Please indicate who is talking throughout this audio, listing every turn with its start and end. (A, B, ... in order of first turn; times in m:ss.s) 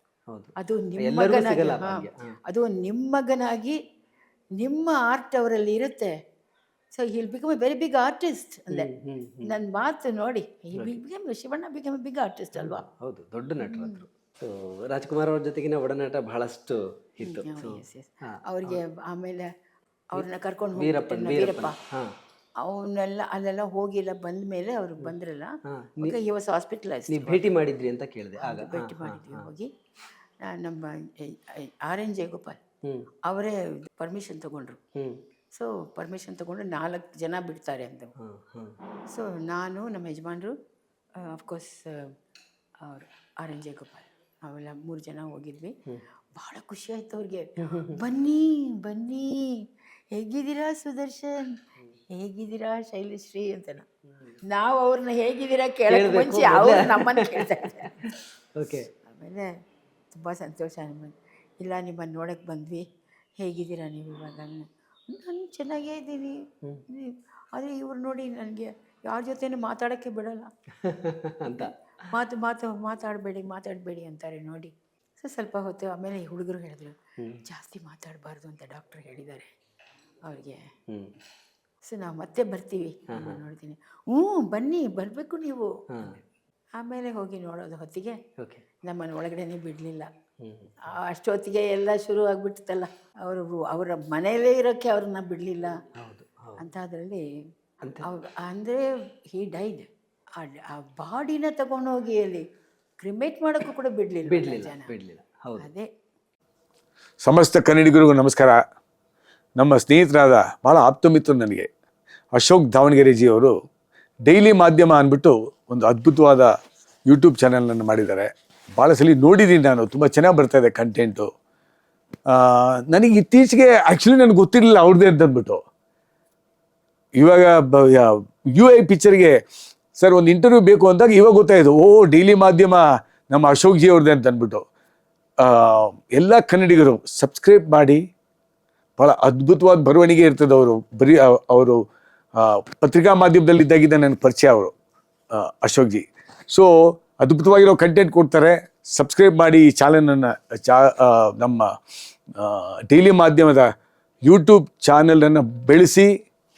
0:00.3-0:02.3 A
0:00.6-0:03.8 B
0:04.6-0:06.1 B
0:07.0-0:08.9 B
0:08.7-0:09.5 A
0:09.4-0:12.8 B
0:12.6-0:18.8 A
0:13.6-0:14.0 B
0:17.2-0:19.5 B
0:20.1-0:21.8 B
0:20.2-0:22.1 A
0:22.6-0:27.4 B
0:25.7-0:26.2 A
0:27.1-0:29.5 A
0:28.4-0:29.7 B
0:30.4-0:32.6 B
0:33.2-0:34.8 B
0:35.5-0:38.1 B
0:38.2-0:38.7 A
0:39.1-0:40.5 B
0:41.2-0:42.1 B
0:42.8-0:45.7 B
0:46.3-0:49.4 B
0:50.1-0:51.6 B
0:52.1-0:53.8 B
0:54.4-0:58.1 B
0:55.9-0:58.9 A
0:59.0-0:59.5 B
1:00.1-1:02.8 B
1:03.4-1:10.5 B
1:10.8-1:11.7 A
1:11.4-1:19.5 B
1:20.2-1:20.6 B
1:21.8-1:26.2 B
1:23.1-1:23.4 A
1:26.8-1:28.2 B
1:28.4-1:28.6 A
1:28.8-1:30.1 B
1:30.4-1:30.7 A
1:30.8-1:35.7 B
1:36.0-1:36.6 A
1:36.6-1:37.2 B
1:38.0-1:42.4 B
1:43.0-1:44.9 B
1:44.3-1:45.7 A
1:45.6-1:45.9 B
1:47.2-1:48.6 C
1:49.6-1:51.7 C
1:52.3-1:53.5 C
1:54.2-1:56.5 C
1:57.1-2:01.3 C
2:02.3-2:05.6 C
2:07.2-2:09.4 C
2:09.9-2:14.6 C
2:15.4-2:18.0 C
2:19.0-2:21.8 C
2:22.3-2:24.7 C
2:25.3-2:31.7 C
2:32.4-2:33.6 C
2:34.2-2:36.1 C